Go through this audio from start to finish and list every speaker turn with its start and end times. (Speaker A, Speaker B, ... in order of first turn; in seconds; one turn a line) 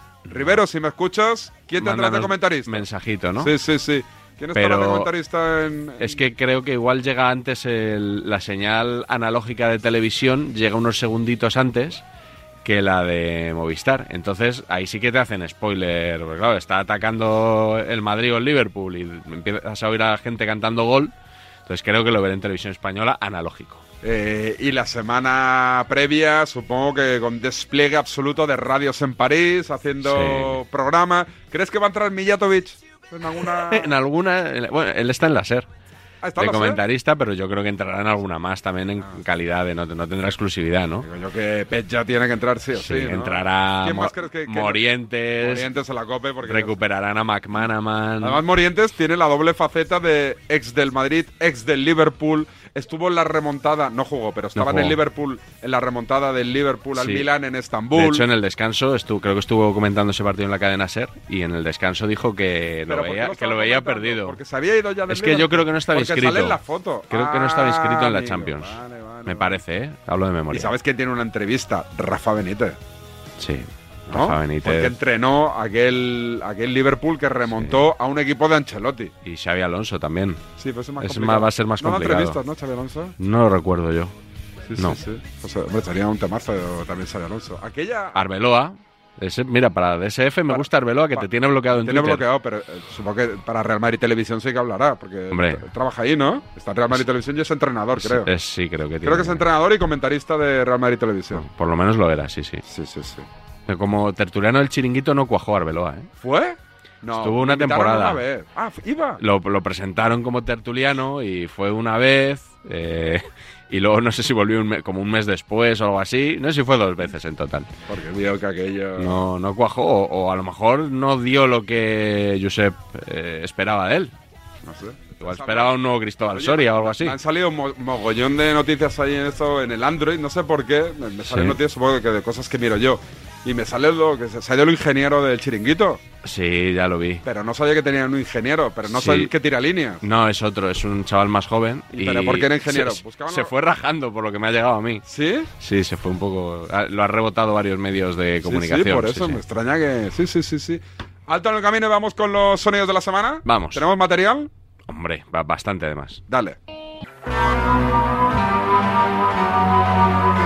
Speaker A: 0.3-2.9
Speaker B: 1.8-3.5
Speaker A: 3.4-6.2
Speaker B: 4.5-5.1
Speaker B: 6.0-12.0
Speaker B: 12.7-21.1
Speaker B: 21.7-23.8
Speaker A: 24.0-33.9
Speaker B: 30.0-30.6
Speaker B: 33.4-35.7
Speaker A: 36.2-36.8
Speaker B: 36.4-41.1
Speaker A: 41.0-44.8
Speaker B: 42.8-45.7
Speaker A: 45.4-46.8
Speaker B: 46.5-48.4
Speaker A: 48.2-58.2
Speaker B: 54.6-55.0
Speaker B: 57.0-57.3
Speaker B: 57.9-64.4
Speaker A: 62.9-69.6
Speaker B: 65.1-66.6
Speaker B: 67.1-70.7
Speaker A: 70.5-72.8
Speaker B: 73.4-74.9
Speaker A: 74.1-79.1
Speaker B: 77.6-77.9
Speaker B: 79.2-80.4
Speaker A: 80.6-83.2
Speaker B: 81.0-82.4
Speaker B: 83.2-84.1
Speaker A: 84.7-88.2
Speaker B: 88.2-92.2
Speaker A: 90.5-98.3
Speaker B: 95.3-95.6
Speaker B: 98.0-99.4
Speaker A: 99.0-101.5
Speaker B: 101.3-102.6
Speaker A: 102.7-103.3
Speaker B: 103.7-106.1
Speaker A: 106.2-109.2
Speaker B: 107.2-108.2
Speaker B: 109.2-117.7
Speaker A: 117.9-119.2
Speaker B: 119.0-124.1
Speaker A: 124.7-125.8
Speaker B: 125.2-127.2
Speaker A: 126.3-136.0
Speaker B: 131.3-131.6
Speaker B: 136.2-137.2
Speaker A: 137.2-140.0
Speaker B: 138.9-139.3
Speaker B: 140.0-145.0
Speaker A: 141.9-143.5
Speaker A: 145.1-145.5
Speaker B: 145.6-149.4
Speaker A: 148.4-154.5
Speaker B: 153.4-153.8
Speaker B: 154.9-156.2
Speaker A: 156.3-156.6